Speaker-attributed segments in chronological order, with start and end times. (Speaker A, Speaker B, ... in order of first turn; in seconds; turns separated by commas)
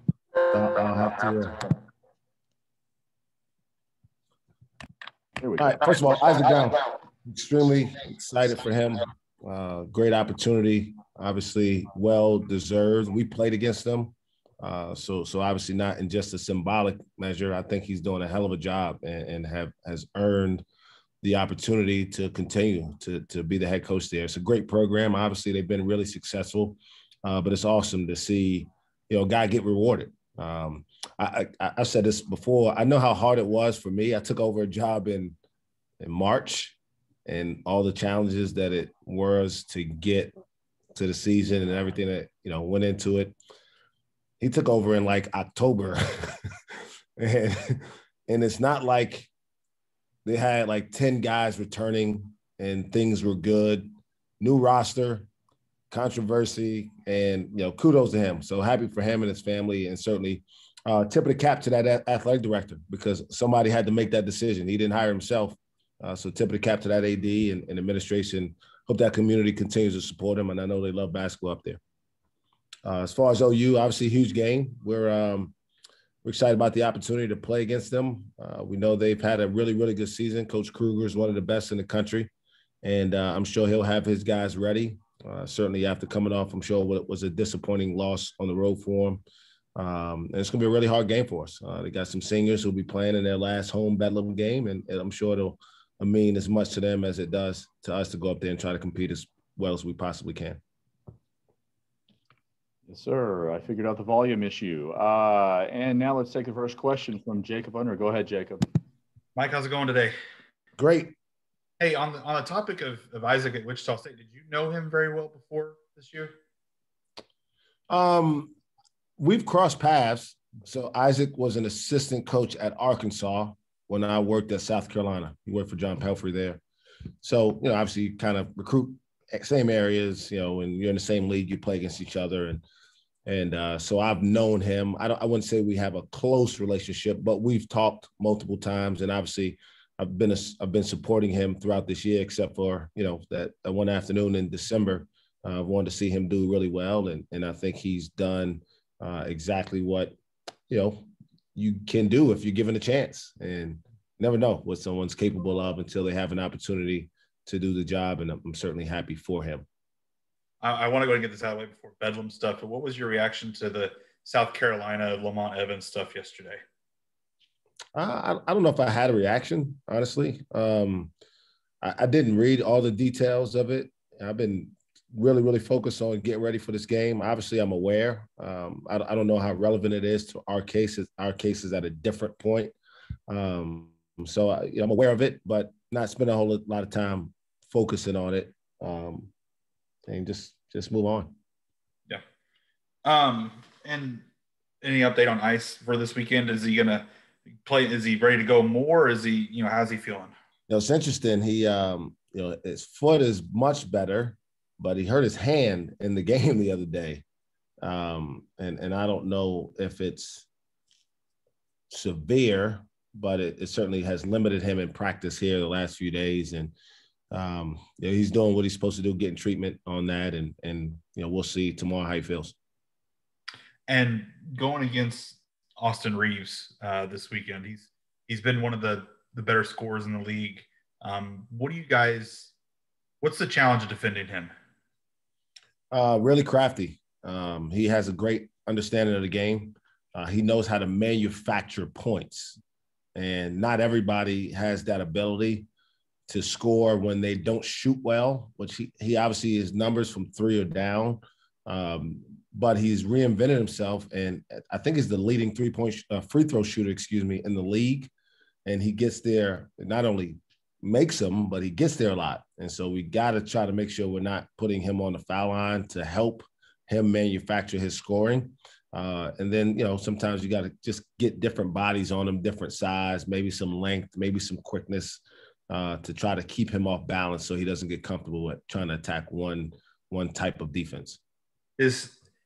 Speaker A: 0.5-1.5, Speaker B: 5.4-5.8, Speaker A: 5.6-20.6, Speaker A: 21.2-35.3, Speaker A: 36.0-40.3, Speaker A: 41.0-43.3, Speaker A: 44.4-46.3, Speaker A: 47.2-49.3, Speaker A: 50.2-53.9, Speaker A: 54.4-55.3, Speaker A: 55.9-71.8, Speaker A: 72.8-75.5, Speaker A: 76.2-82.3, Speaker A: 82.8-89.2, Speaker A: 89.8-100.6, Speaker B: 102.9-108.6, Speaker C: 109.4-110.1, Speaker A: 110.8-111.1, Speaker C: 111.8-116.3, Speaker A: 117.9-118.5, Speaker A: 119.2-126.6, Speaker A: 127.2-132.6, Speaker A: 133.2-150.2, Speaker A: 150.7-159.6, Speaker C: 160.6-166.6, Speaker A: 168.0-171.1, Speaker A: 171.8-182.7, Speaker A: 183.3-189.3, Speaker A: 190.1-191.3, Speaker C: 193.0-194.2, Speaker C: 194.8-197.1, Speaker C: 197.6-200.3, Speaker A: 200.7-207.2, Speaker A: 207.8-210.5, Speaker A: 211.9-216.7, Speaker A: 217.3-222.6, Speaker C: 223.9-232.5, Speaker C: 233.2-234.5, Speaker A: 235.9-242.6, Speaker A: 243.2-245.7, Speaker A: 246.3-258.1, Speaker A: 258.6-281.2, Speaker C: 281.8-282.2